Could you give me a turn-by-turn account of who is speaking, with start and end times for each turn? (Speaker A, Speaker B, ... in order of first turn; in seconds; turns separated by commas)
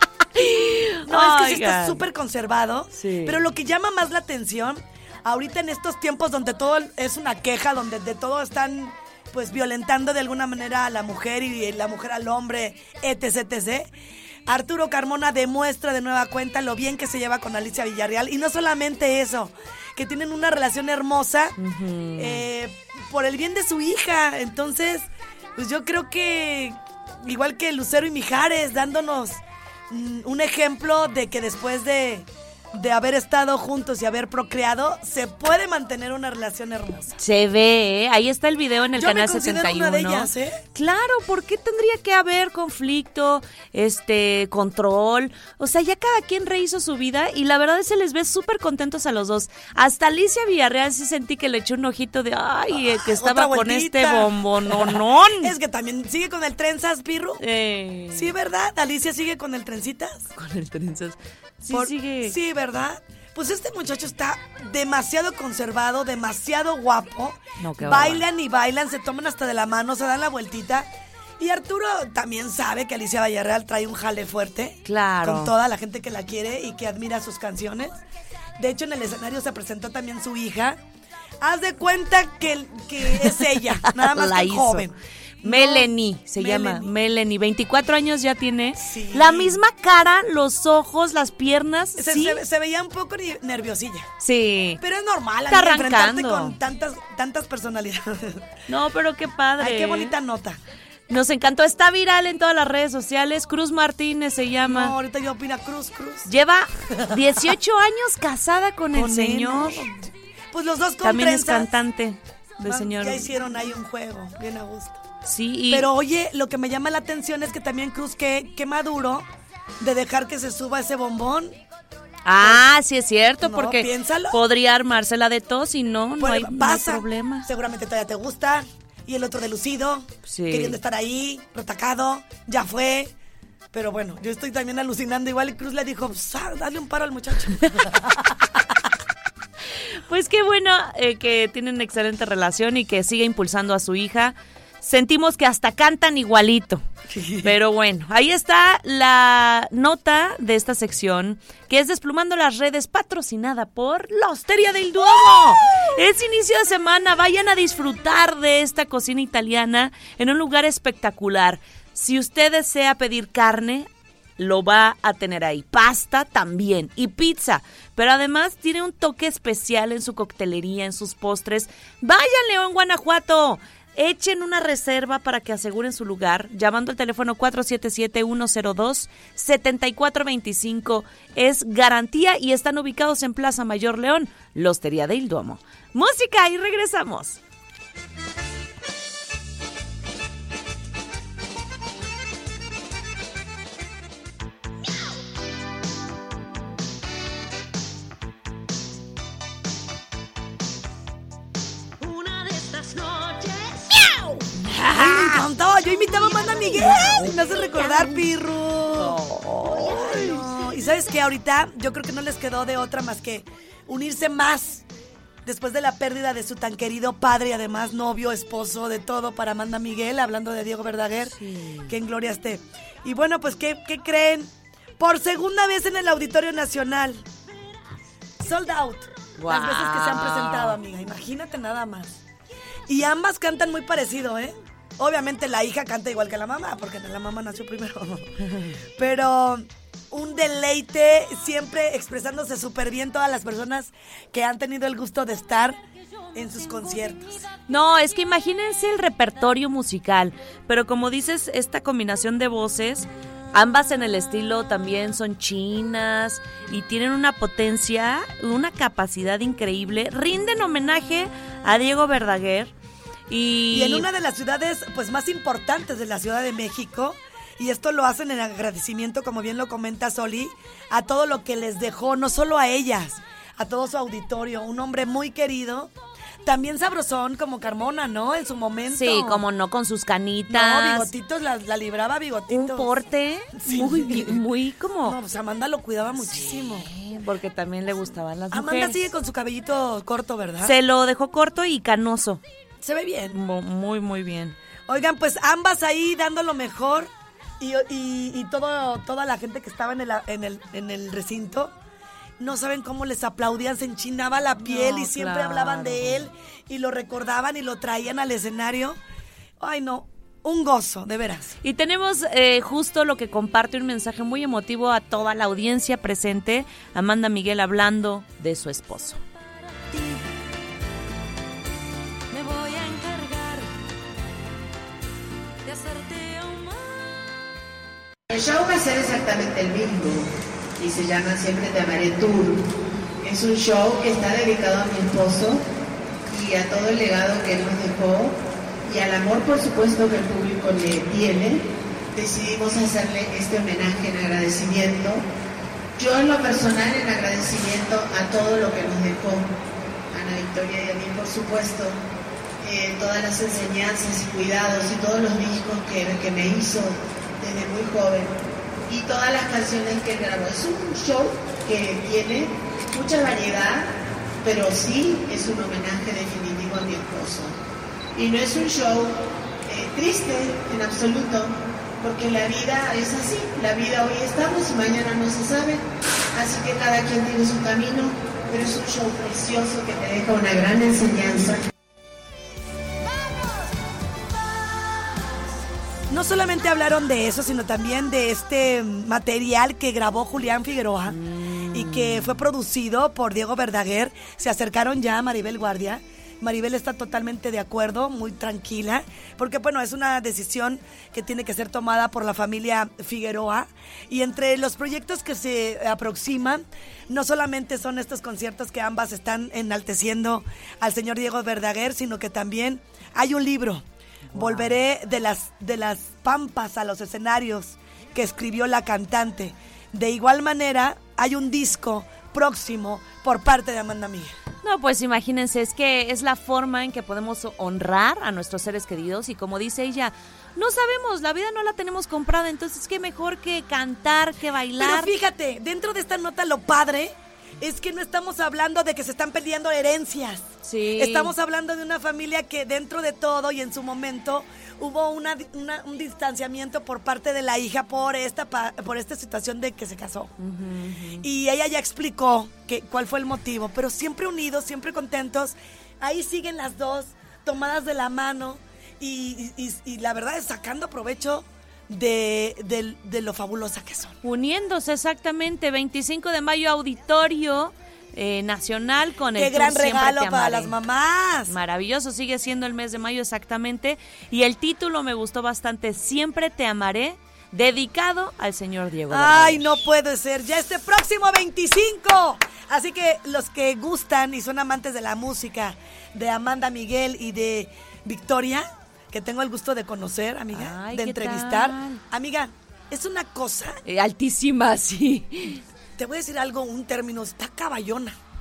Speaker A: 0.3-2.0, Speaker B: 1.0-13.9, Speaker A: 2.9-3.4, Speaker B: 14.5-21.6, Speaker A: 21.6-22.4, Speaker B: 22.1-37.1, Speaker A: 37.2-55.5, Speaker B: 39.0-40.6, Speaker B: 52.7-57.4, Speaker A: 57.4-58.3, Speaker B: 58.1-60.3, Speaker A: 60.4-62.4, Speaker B: 61.7-78.0, Speaker A: 67.6-68.2, Speaker A: 74.8-75.5, Speaker B: 78.6-80.8, Speaker B: 81.4-86.9, Speaker A: 83.0-84.9, Speaker A: 85.4-92.4, Speaker B: 88.8-89.6, Speaker B: 92.0-94.1, Speaker A: 94.2-94.8, Speaker B: 94.8-98.5, Speaker A: 95.5-96.5, Speaker A: 98.7-100.1, Speaker B: 99.6-100.6, Speaker A: 101.1-104.9, Speaker B: 104.6-106.3, Speaker A: 106.2-109.9, Speaker B: 107.0-107.4, Speaker B: 108.9-110.0, Speaker B: 110.5-111.7, Speaker A: 111.0-113.3, Speaker B: 112.6-115.0, Speaker A: 115.2-115.9, Speaker B: 115.7-119.2, Speaker B: 119.8-121.5, Speaker A: 122.2-127.5, Speaker B: 122.4-122.7, Speaker B: 123.4-124.4, Speaker B: 126.2-133.1, Speaker A: 130.3-130.8, Speaker B: 133.7-138.6, Speaker A: 139.8-146.8, Speaker B: 147.1-147.5, Speaker A: 147.4-187.4, Speaker B: 155.0-156.0, Speaker A: 204.5-205.4, Speaker B: 204.9-214.8, Speaker A: 206.1-208.2, Speaker A: 208.9-210.6, Speaker B: 215.4-227.2, Speaker A: 221.3-221.9, Speaker B: 228.4-232.2, Speaker A: 229.4-230.8, Speaker B: 232.9-238.4, Speaker A: 238.4-238.7, Speaker B: 238.9-245.8, Speaker B: 246.3-247.5, Speaker A: 247.7-262.7, Speaker A: 263.3-264.1, Speaker B: 263.7-275.9, Speaker B: 276.4-279.4, Speaker A: 278.9-281.1, Speaker B: 280.5-282.9, Speaker A: 282.5-285.2, Speaker B: 283.5-284.4, Speaker B: 285.0-286.9, Speaker A: 286.2-289.0, Speaker B: 288.5-290.8, Speaker A: 290.6-292.4, Speaker B: 292.8-293.4, Speaker A: 293.3-294.6, Speaker B: 294.9-301.7, Speaker B: 302.4-309.0, Speaker A: 304.6-306.3, Speaker B: 309.6-311.6, Speaker A: 311.6-319.2, Speaker C: 328.3-332.6, Speaker C: 333.2-335.6, Speaker C: 336.3-345.2, Speaker C: 346.0-349.5, Speaker C: 350.1-352.0, Speaker C: 352.6-358.4, Speaker C: 358.9-363.9, Speaker C: 364.4-367.6, Speaker C: 368.1-381.6, Speaker B: 386.1-424.4, Speaker A: 391.1-392.4, Speaker A: 414.3-414.7, Speaker A: 424.6-435.1, Speaker B: 434.8-450.3, Speaker A: 440.6-441.3, Speaker A: 450.4-451.2, Speaker B: 451.2-464.2, Speaker A: 464.2-470.7, Speaker B: 469.3-471.5, Speaker A: 471.5-479.6, Speaker B: 479.1-493.8, Speaker A: 490.5-492.0, Speaker A: 493.8-495.6, Speaker B: 496.0-498.2